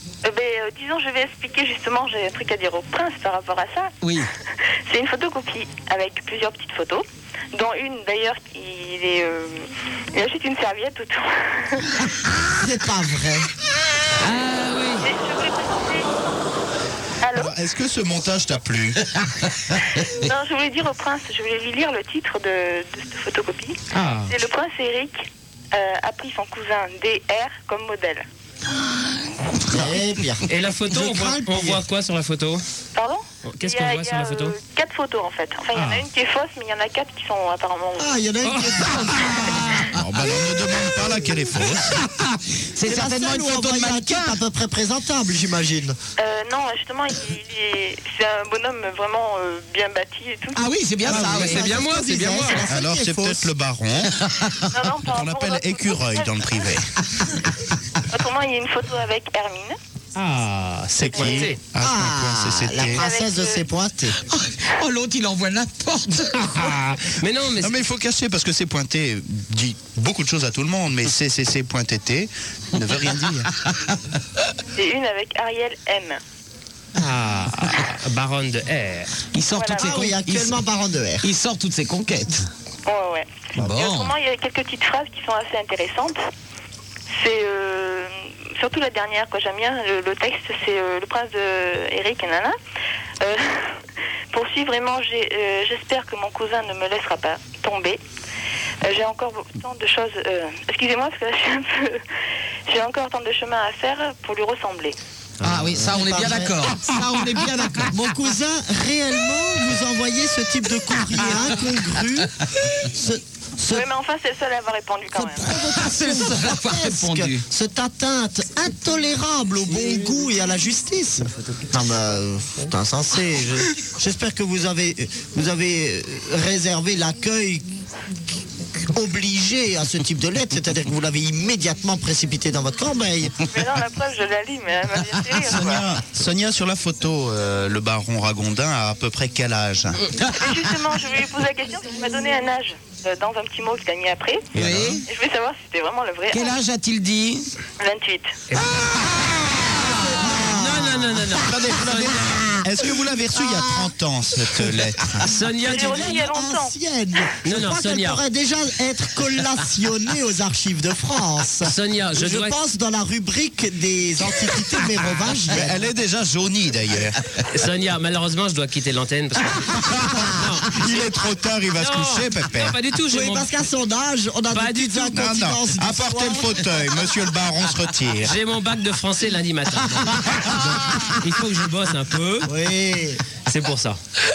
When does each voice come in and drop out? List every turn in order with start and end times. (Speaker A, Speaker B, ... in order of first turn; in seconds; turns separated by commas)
Speaker A: 0.2-3.9, Speaker B: 4.0-4.3, Speaker A: 4.9-12.1, Speaker C: 12.6-13.5, Speaker D: 14.2-15.1, Speaker A: 15.0-16.1, Speaker A: 17.2-17.5, Speaker E: 17.3-19.0, Speaker B: 19.1-20.3, Speaker A: 20.1-28.2, Speaker D: 23.9-24.3, Speaker C: 29.6-31.8, Speaker D: 30.5-32.6, Speaker A: 32.9-38.1, Speaker D: 33.5-34.5, Speaker D: 35.7-36.0, Speaker C: 38.0-39.8, Speaker D: 38.5-39.0, Speaker B: 39.7-40.3, Speaker E: 39.9-42.0, Speaker B: 41.8-44.4, Speaker C: 42.8-46.0, Speaker A: 46.2-50.7, Speaker B: 50.5-51.8, Speaker C: 51.0-53.5, Speaker D: 51.1-52.6, Speaker E: 52.6-54.2, Speaker B: 54.2-54.7, Speaker A: 54.7-56.7, Speaker E: 55.0-56.9, Speaker A: 58.1-59.8, Speaker D: 60.1-61.6, Speaker E: 60.9-63.0, Speaker A: 61.1-61.5, Speaker C: 61.8-64.2, Speaker A: 62.8-63.6, Speaker B: 64.3-66.7, Speaker D: 66.4-67.7, Speaker E: 67.6-73.5, Speaker B: 72.8-74.0, Speaker A: 74.8-76.2, Speaker D: 76.9-79.1, Speaker B: 79.3-80.6, Speaker A: 79.5-80.0, Speaker C: 79.7-81.3, Speaker B: 81.2-82.5, Speaker A: 82.8-86.2, Speaker B: 83.5-84.1, Speaker A: 87.1-92.5, Speaker A: 93.2-98.0, Speaker A: 98.8-102.0, Speaker A: 102.7-105.0, Speaker B: 105.4-107.9, Speaker C: 105.5-113.9, Speaker A: 113.7-115.5, Speaker B: 115.2-117.4, Speaker C: 115.3-127.7, Speaker C: 128.8-133.4, Speaker A: 133.4-135.9, Speaker E: 135.4-140.0, Speaker B: 140.2-140.4, Speaker A: 140.3-144.5, Speaker E: 144.5-145.0, Speaker B: 144.5-145.0, Speaker A: 145.1-146.6, Speaker B: 146.3-147.5, Speaker A: 147.8-148.4, Speaker B: 149.0-150.1, Speaker C: 150.0-152.8, Speaker D: 150.2-152.4, Speaker E: 151.4-155.3, Speaker C: 153.3-153.7, Speaker D: 155.2-156.1, Speaker C: 155.6-165.8, Speaker A: 155.6-156.7, Speaker D: 157.4-158.2, Speaker D: 161.6-162.6, Speaker E: 165.5-167.3, Speaker D: 167.5-171.0, Speaker E: 170.7-172.8, Speaker D: 171.8-173.5, Speaker C: 173.1-176.7, Speaker D: 174.5-175.2, Speaker E: 175.1-178.3, Speaker D: 178.2-182.5, Speaker E: 180.3-180.5, Speaker C: 182.4-183.2, Speaker D: 183.4-184.0